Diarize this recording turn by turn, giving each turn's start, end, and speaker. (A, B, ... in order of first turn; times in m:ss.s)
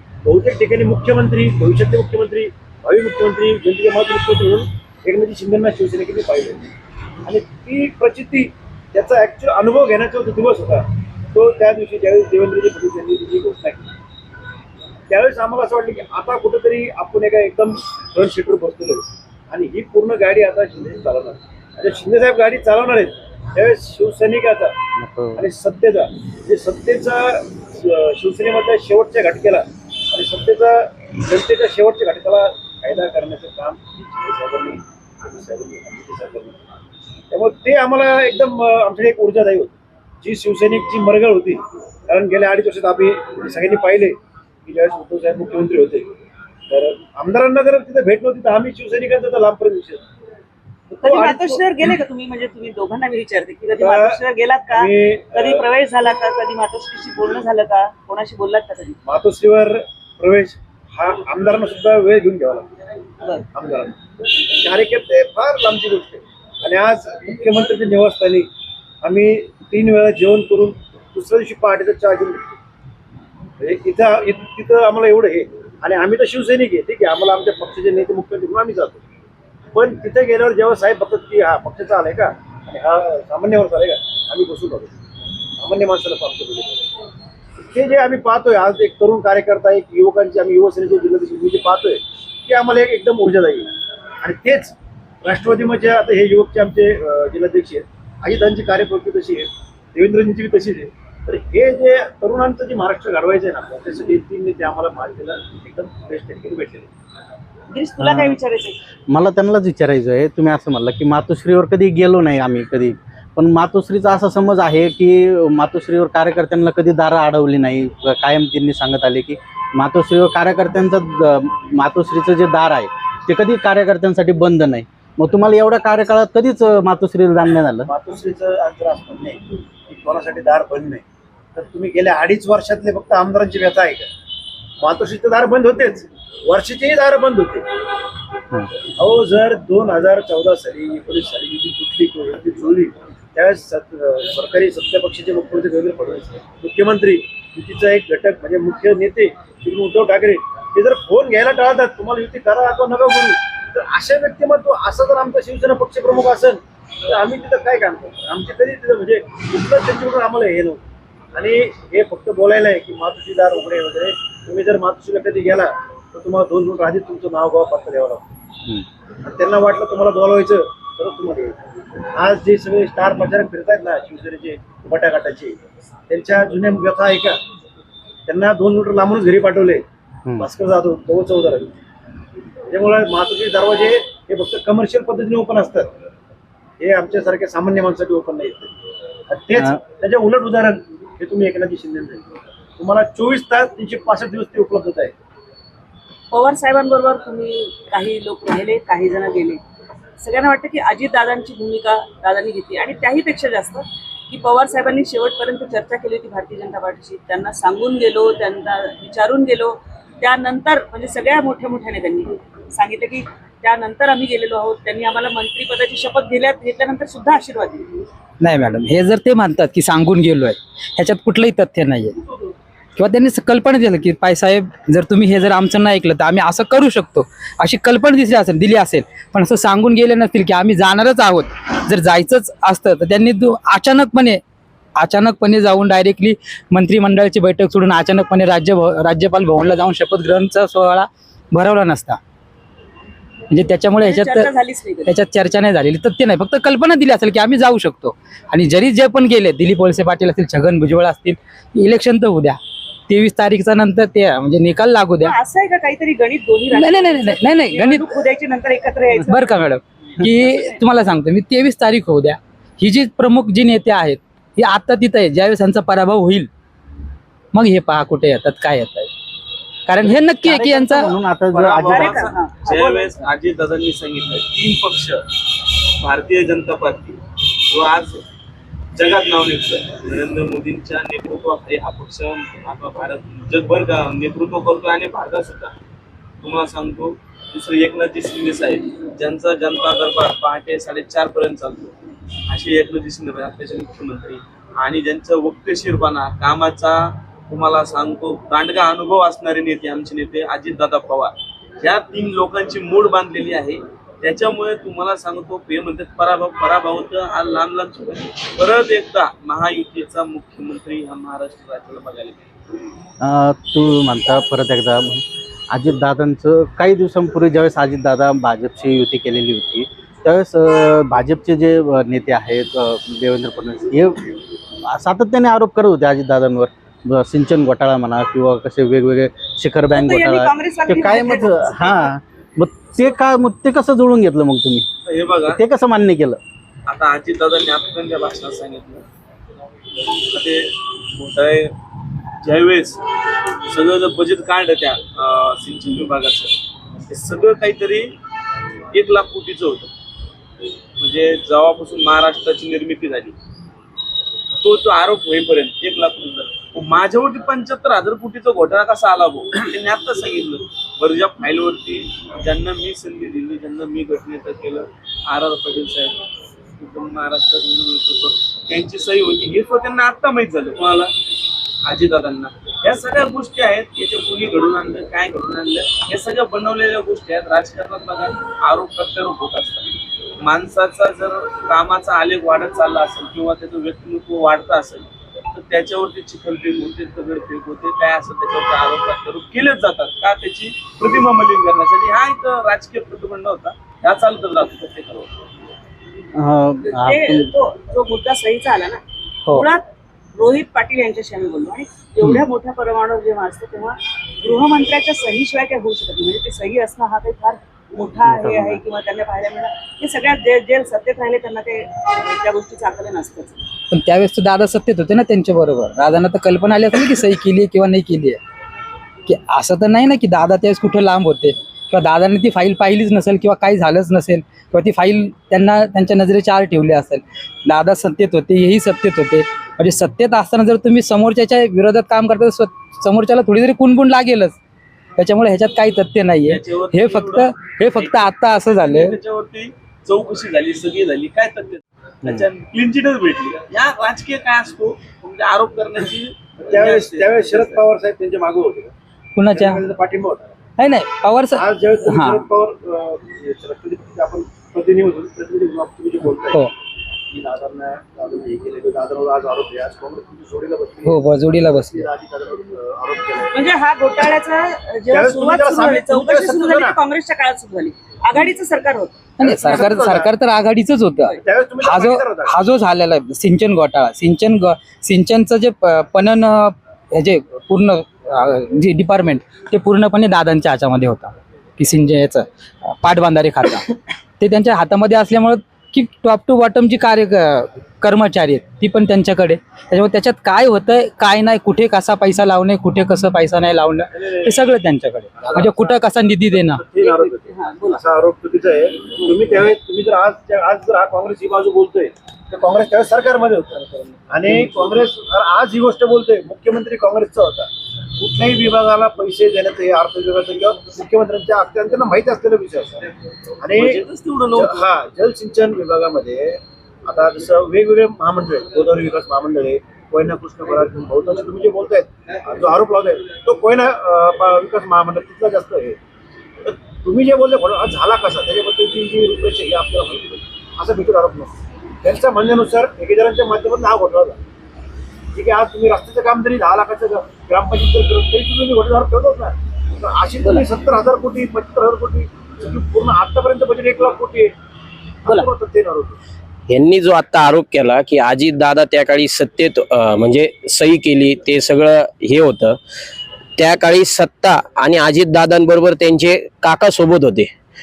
0:00.2-0:06.6 A
0:07.2-0:13.9 A
0:15.1-0:24.7 A
0:25.0-0:25.4 B
0:25.4-0:36.6 A
0:37.3-0:46.1 A
0:46.7-0:50.0 A
0:50.9-0:59.0 C
0:51.0-0:51.6 A
0:53.8-0:55.6 A
0:59.0-1:02.7 A
1:03.5-1:04.0 A
1:04.5-1:08.5 A
1:09.0-1:12.5 A
1:13.6-1:19.0 A
1:19.7-1:24.9 A
1:25.6-1:26.9 A
1:27.6-1:46.9 A
1:47.7-1:48.8 C
1:48.0-1:48.4 B
1:49.1-2:07.9 B
2:07.9-2:11.0 A
2:11.5-2:14.1 A
2:14.8-2:17.6 A
2:19.0-2:40.8 A
2:41.3-2:48.3 A
2:49.2-2:51.6 A
2:52.1-2:55.6 A
2:56.1-2:57.4 A
2:58.3-2:59.8 A
3:00.4-3:01.7 A
3:02.7-3:05.9 A
3:06.8-3:08.7 A
3:09.3-3:15.1 A
3:16.3-3:19.6 C
3:20.2-3:38.0 C
3:38.4-3:42.2 D
3:43.0-3:54.4 D
3:55.0-4:02.2 D
4:03.5-4:04.5 D
4:04.0-4:05.1 C
4:05.0-4:12.6 D
4:13.1-4:15.3 D
4:15.2-4:19.6 C
4:16.7-4:18.0 D
4:19.3-4:26.5 D
4:20.2-4:20.8 C
4:27.5-4:29.1 D
4:29.9-4:31.1 D
4:30.4-4:32.3 B
4:31.5-4:35.2 E
4:31.8-4:33.2 C
4:36.0-4:37.2 E
4:37.7-4:38.2 E
4:39.0-4:45.7 E
4:46.4-4:51.9 E
4:52.5-5:12.5 E
5:13.2-5:34.8 B
5:29.9-5:32.1 C
5:35.0-5:35.6 E
5:35.5-5:36.4 B
5:36.9-5:39.0 E
5:40.3-5:41.7 E
5:42.4-5:43.0 E
5:43.7-5:46.5 E
5:47.1-5:48.1 E
5:48.9-5:49.9 E
5:51.0-5:53.3 E
5:54.6-6:06.2 E
6:06.8-6:11.1 E
6:11.8-6:35.3 E
6:36.4-6:37.5 B
6:36.9-6:53.6 C
6:48.3-6:48.8 B
6:53.9-6:58.4 D
6:59.3-7:14.6 D
7:15.2-7:19.2 D
7:16.4-7:27.8 E
7:26.6-7:28.9 A
7:29.4-7:29.8 D
7:29.5-7:30.5 A
7:30.8-7:32.4 D
7:31.5-7:36.7 A
7:37.3-7:43.6 A
7:41.0-7:42.1 D
7:43.5-7:49.3 C
7:45.1-7:47.0 A
7:49.4-8:16.8 D
7:49.4-7:50.3 A
7:51.4-7:52.5 A
8:15.4-8:16.0 A
8:16.7-8:33.0 A
8:17.0-8:18.0 C
8:33.6-8:34.0 A
8:33.7-8:34.8 E
8:34.5-8:46.0 A
8:46.6-8:54.4 A
8:55.3-9:04.5 A
9:05.2-9:06.2 A
9:06.7-9:12.8 F
9:13.6-9:17.5 F